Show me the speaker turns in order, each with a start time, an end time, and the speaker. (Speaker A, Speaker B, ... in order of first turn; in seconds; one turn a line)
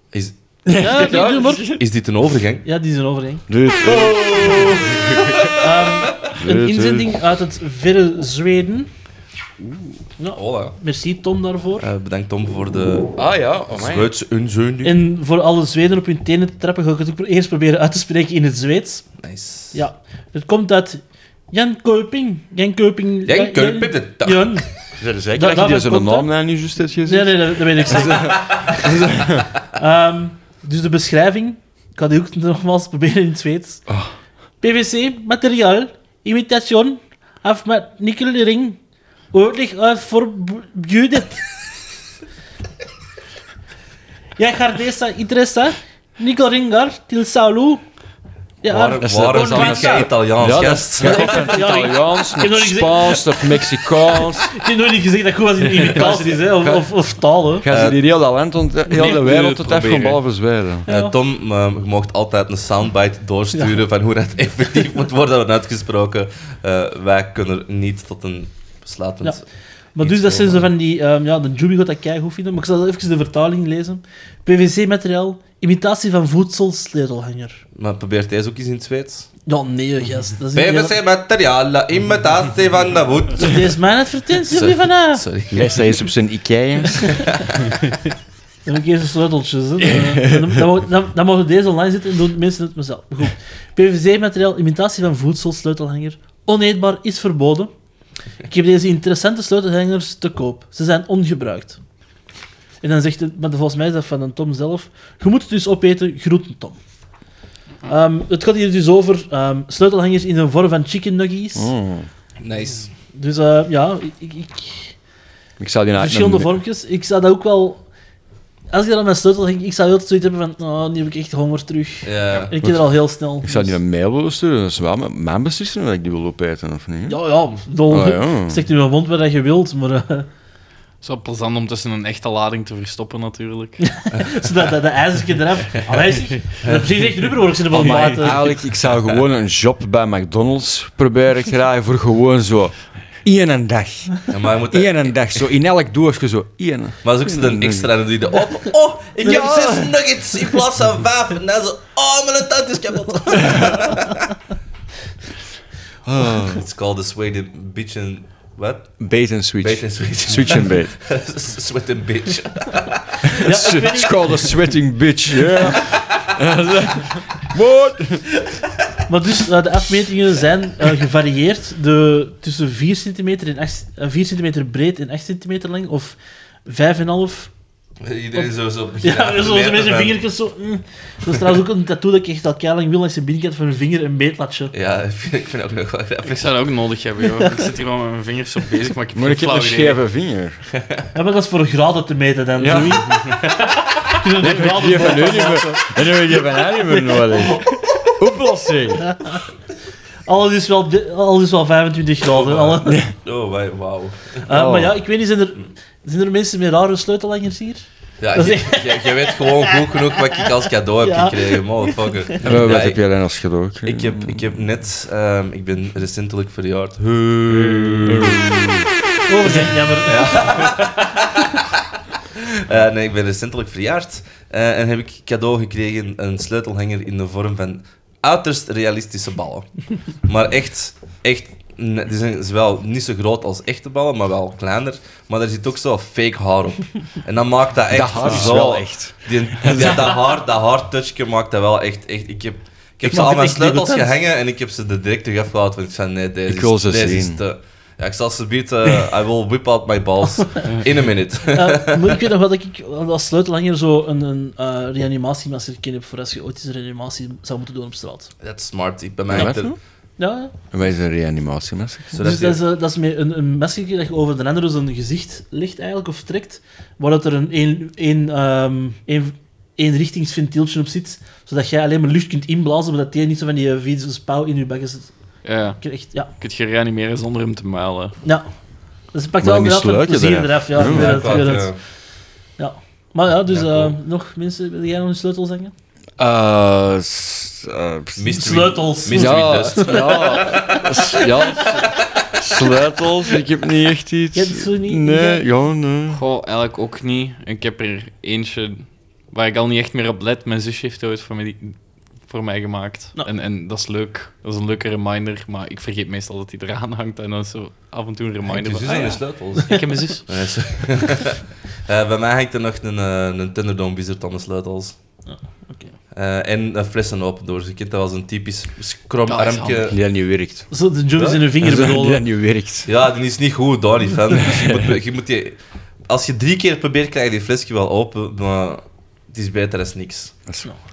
Speaker A: 0.6-1.8
Speaker B: 0.8-1.8
Speaker C: 1.7-2.6
Speaker B: 2.6-3.5
Speaker A: 3.5-5.5
Speaker C: 3.8-4.9
Speaker B: 5.6-8.9
Speaker A: 6.3-7.1
Speaker B: 10.2-11.9
Speaker C: 10.3-10.8
Speaker C: 11.8-15.0
Speaker A: 13.2-14.1
Speaker B: 14.8-19.1
Speaker C: 19.2-19.8
Speaker B: 19.7-24.6
Speaker C: 23.2-24.6
Speaker A: 25.0-29.5
Speaker B: 25.3-26.3
Speaker B: 27.0-28.9
Speaker B: 29.8-33.8
Speaker B: 34.6-38.8
Speaker B: 39.3-41.4
Speaker B: 44.4-47.8
Speaker B: 48.6-50.1
Speaker C: 48.6-51.4
Speaker A: 49.0-54.5
Speaker B: 51.0-57.7
Speaker A: 55.7-56.9
Speaker A: 57.6-60.9
Speaker C: 57.7-58.0
Speaker D: 59.0-60.0
Speaker C: 59.6-60.1
Speaker B: 60.9-61.1
Speaker C: 60.9-69.5
Speaker B: 69.9-77.6
Speaker C: 70.0-70.7
Speaker C: 77.7-79.3
Speaker B: 79.5-81.0
Speaker C: 80.5-83.7
Speaker B: 83.4-85.2
Speaker C: 84.5-85.7
Speaker A: 85.5-87.4
Speaker B: 88.7-97.7
Speaker A: 89.8-90.7
Speaker B: 98.5-101.8
Speaker B: 102.8-106.8
Speaker B: 107.8-111.7
Speaker A: 111.5-112.1
Speaker C: 112.4-112.9
Speaker B: 113.1-114.9
Speaker A: 115.6-116.5
Speaker B: 116.0-117.8
Speaker B: 118.7-123.8
Speaker C: 122.0-122.5
Speaker A: 122.6-122.9
Speaker A: 123.4-127.2
Speaker B: 127.1-130.3
Speaker A: 127.9-128.7
Speaker D: 131.0-133.8
Speaker B: 133.9-138.5
Speaker C: 136.6-136.9
Speaker A: 137.7-147.9
Speaker C: 144.3-145.4
Speaker C: 147.0-154.2
Speaker A: 149.2-149.9
Speaker A: 153.5-153.8
Speaker A: 156.0-156.6
Speaker C: 156.5-159.0
Speaker A: 159.0-160.9
Speaker C: 159.6-163.2
Speaker A: 163.3-168.4
Speaker B: 163.4-164.5
Speaker B: 169.1-177.5
Speaker C: 178.0-180.2
Speaker B: 179.0-184.7
Speaker C: 184.7-186.5
Speaker D: 186.2-190.0
Speaker A: 189.1-190.6
Speaker B: 191.1-193.3
Speaker A: 192.6-193.4
Speaker B: 194.1-195.9
Speaker A: 194.2-199.2
Speaker B: 196.9-197.7
Speaker B: 199.1-199.3
Speaker B: 200.2-203.0
Speaker C: 202.3-204.4
Speaker B: 204.4-210.1
Speaker A: 204.5-205.0
Speaker C: 208.2-213.0
Speaker B: 211.0-212.2
Speaker A: 212.4-214.6
Speaker C: 213.8-218.4
Speaker A: 217.4-218.9
Speaker B: 219.3-220.7
Speaker C: 220.0-221.4
Speaker C: 222.4-252.1
Speaker A: 237.9-240.2
Speaker B: 243.0-244.1
Speaker A: 246.5-247.4
Speaker B: 251.5-258.3
Speaker C: 258.4-259.8
Speaker A: 259.3-259.8
Speaker B: 260.2-260.5
Speaker A: 260.7-262.2
Speaker C: 262.1-262.6
Speaker B: 262.2-275.1
Speaker D: 275.4-278.2
Speaker B: 275.8-276.3
Speaker B: 279.1-281.7
Speaker A: 279.4-281.5
Speaker C: 280.8-281.8
Speaker B: 282.6-285.7
Speaker C: 283.5-283.9
Speaker A: 286.2-296.2
Speaker C: 288.2-290.9
Speaker B: 288.3-290.8
Speaker B: 294.3-295.4
Speaker D: 296.1-310.3
Speaker C: 308.5-315.0
Speaker B: 315.3-315.9
Speaker C: 316.1-320.0
Speaker D: 319.3-319.9
Speaker A: 319.9-320.7
Speaker B: 320.7-322.2
Speaker C: 321.2-321.4
Speaker A: 321.6-322.9
Speaker C: 322.9-330.3
Speaker A: 324.6-324.9